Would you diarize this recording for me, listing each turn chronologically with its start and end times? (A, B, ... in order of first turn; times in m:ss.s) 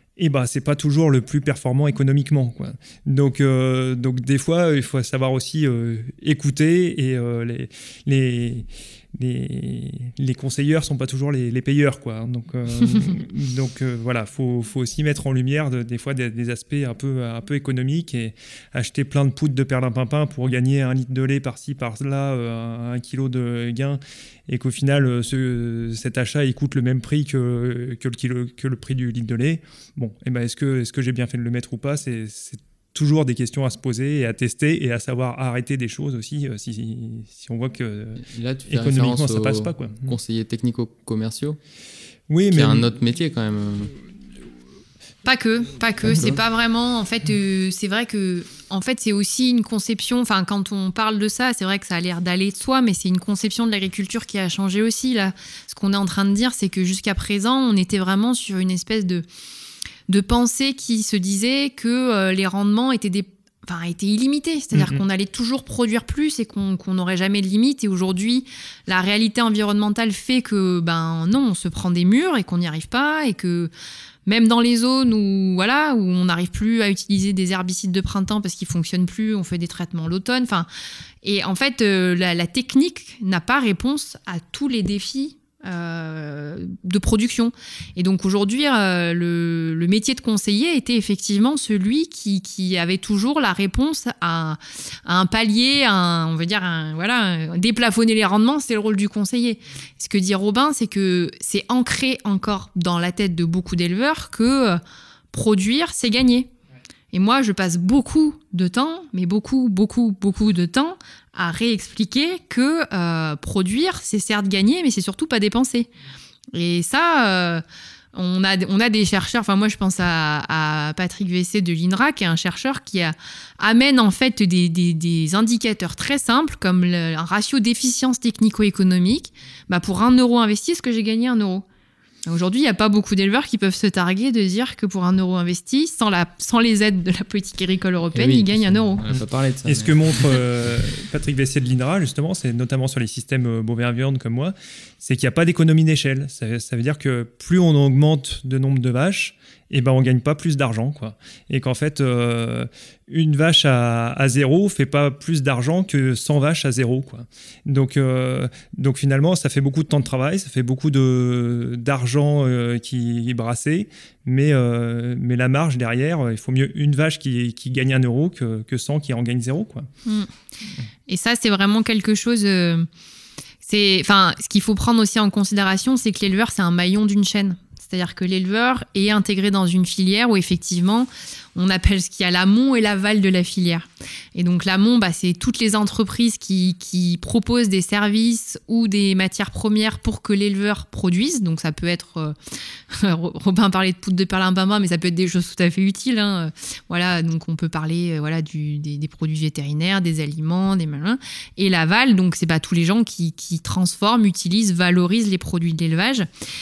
0:00.2-0:40.2 A
0:38.2-0:41.6 B
0:42.3-0:42.9 A
0:42.5-0:43.9 B
0:45.2-0:59.2 C
0:46.0-0:46.4 B
1:00.1-1:13.7 C
1:04.7-1:05.0 A
1:14.2-1:20.7 C
1:21.2-1:44.8 C
1:45.3-1:46.5 C
1:47.1-1:55.9 C
1:56.5-1:57.6 C
1:58.1-2:11.6 C
2:12.2-2:19.0 C
2:18.1-2:19.9 B
2:19.1-2:49.9 A
2:50.0-2:50.3 C
2:51.1-2:52.9 C
2:53.6-3:12.3 C
3:12.9-3:26.3 C